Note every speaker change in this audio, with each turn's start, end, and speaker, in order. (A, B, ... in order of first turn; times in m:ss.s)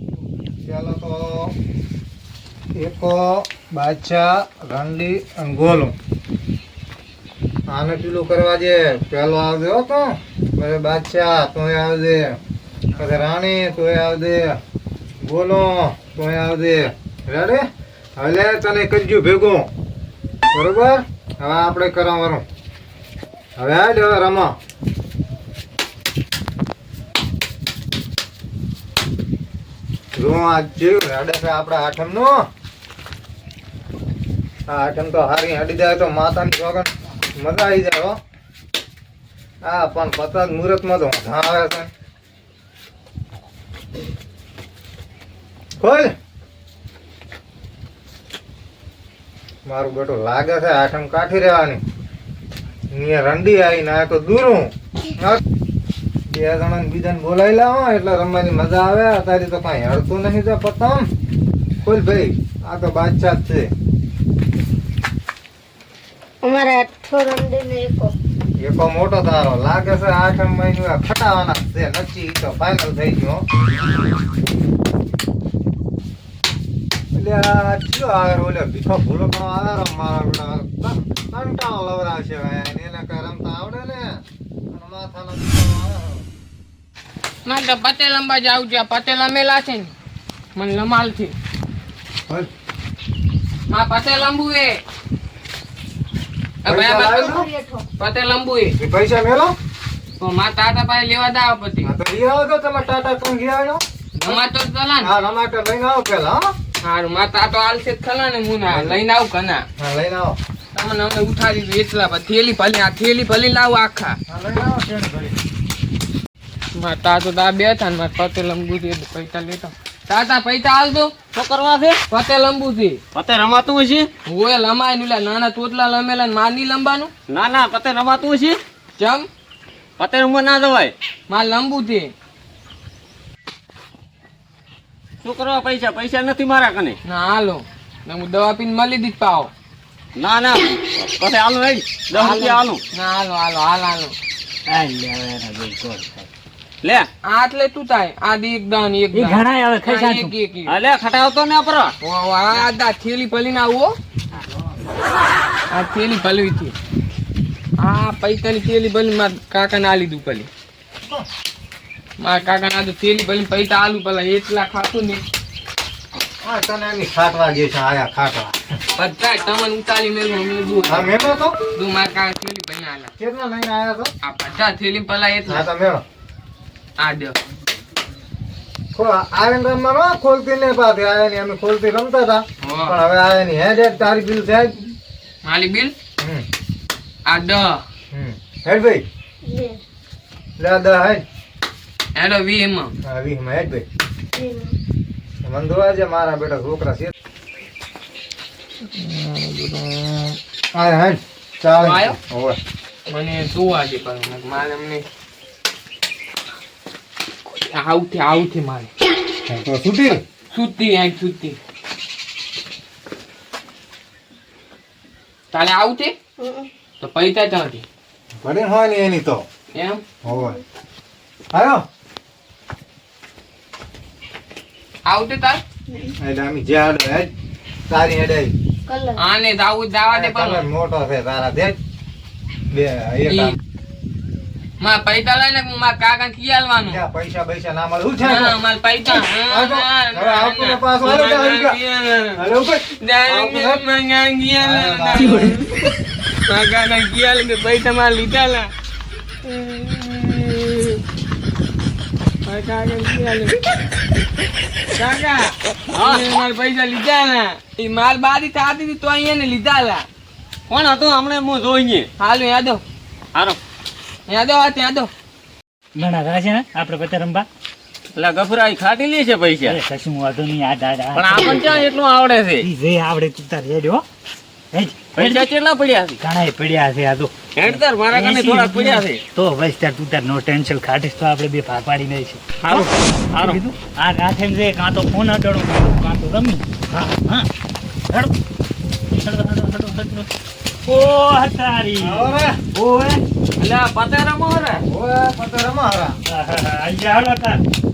0:00.5-0:01.5 A
0:02.7-0:05.9 A
0:07.7-0:12.4 A
0:13.0-0:14.6 A
0:15.2-0:17.6 A
0:18.2-0:19.7 A
0:20.5-0:22.4 A
0:23.6-0:24.6 A
0:30.2-0:32.4 A
0:34.7-0:38.2 A
0:39.6-0:41.9 A
0:45.8-0:46.1 A
0:49.6-0:51.8 A
0:52.9-0:55.4 A
0:56.3-1:01.1 A
1:01.8-1:03.7 A
1:06.4-1:08.1 B
1:08.6-1:13.4 A
1:17.1-1:26.2 A
1:27.4-1:29.9 C
1:30.5-1:31.3 C
1:33.7-1:34.8 C
1:36.6-1:37.4 C
1:36.7-1:37.5 A
1:37.2-1:37.8 B
1:38.0-1:38.7 C
1:38.8-1:39.5 A
1:40.2-1:41.9 C
1:41.8-1:44.4 A
1:44.2-1:45.1 C
1:45.0-1:46.5 A
1:46.8-1:49.6 C
1:48.6-1:49.0 A
1:49.8-1:50.4 A
1:50.7-1:54.2 C
1:54.3-1:55.3 A
1:56.7-2:01.1 C
2:01.3-2:02.0 D
2:02.1-2:03.0 C
2:03.1-2:04.1 D
2:04.3-2:07.1 C
2:07.3-2:08.6 D
2:09.0-2:09.3 C
2:10.0-2:10.9 D
2:11.3-2:12.1 C
2:15.2-2:17.0 D
2:17.0-2:19.5 C
2:20.2-2:22.8 D
2:22.1-2:24.1 C
2:24.7-2:26.3 E
2:27.3-2:30.7 C
2:29.1-2:30.3 E
2:30.6-2:31.9 D
2:32.0-2:33.9 C
2:35.7-2:36.7 C
2:37.8-2:40.5 C
2:42.2-2:45.2 C
2:46.4-2:48.5 A
2:49.0-2:51.1 C
2:50.9-2:51.5 A
2:51.7-2:53.1 C
2:53.2-2:54.1 A
2:54.2-2:55.6 C
2:55.5-2:56.0 A
2:57.0-2:57.4 C
2:58.9-3:04.8 A
3:02.6-3:03.0 C
3:05.4-3:05.9 C
3:06.2-3:06.4 A
3:07.2-3:07.8 C
3:08.1-3:09.0 A
3:09.4-3:09.8 B
3:10.6-3:11.2 A
3:12.1-3:12.9 C
3:13.0-3:13.8 A
3:14.4-3:14.7 B
3:15.4-3:17.1 A
3:19.0-3:22.6 A
3:21.8-3:22.2 C
3:23.1-3:25.0 C
3:27.5-3:28.9 C
3:29.5-3:30.2 A
3:30.5-3:31.6 C
3:35.5-3:36.2 C
3:36.4-3:36.7 B
3:37.0-3:37.8 C
3:38.4-3:39.4 A
3:39.7-3:40.0 C
3:40.2-3:40.6 A
3:41.5-3:41.8 A
3:45.1-3:45.6 C
3:46.2-3:47.3 A
3:47.9-3:48.5 A
3:48.9-3:49.2 B
3:49.2-3:50.7 C
3:50.1-3:51.8 A
3:52.7-3:53.5 A
3:53.3-3:53.5 C
3:54.8-3:57.0 C
3:56.8-3:58.6 A
3:58.2-4:02.4 C
3:59.5-4:01.8 A
4:02.4-4:03.8 A
4:03.0-4:08.7 C
4:04.6-4:05.5 A
4:09.4-4:11.0 C
4:12.4-4:13.6 C
4:15.0-4:20.0 C
4:15.9-4:16.2 D
4:20.7-4:22.1 D
4:22.2-4:22.8 C
4:24.3-4:25.1 C
4:26.0-4:27.5 E
4:28.1-4:29.8 D
4:29.6-4:31.8 E
4:31.1-4:32.6 D
4:32.6-4:34.0 E
4:34.7-4:35.4 E
4:35.2-4:36.2 D
4:36.2-4:47.5 E
4:37.6-4:39.2 D
4:42.6-4:43.6 D
4:49.1-4:50.3 E
4:50.8-4:53.2 E
4:52.0-4:52.6 A
4:53.6-4:54.8 D
4:54.9-4:56.2 A
4:56.2-4:57.6 E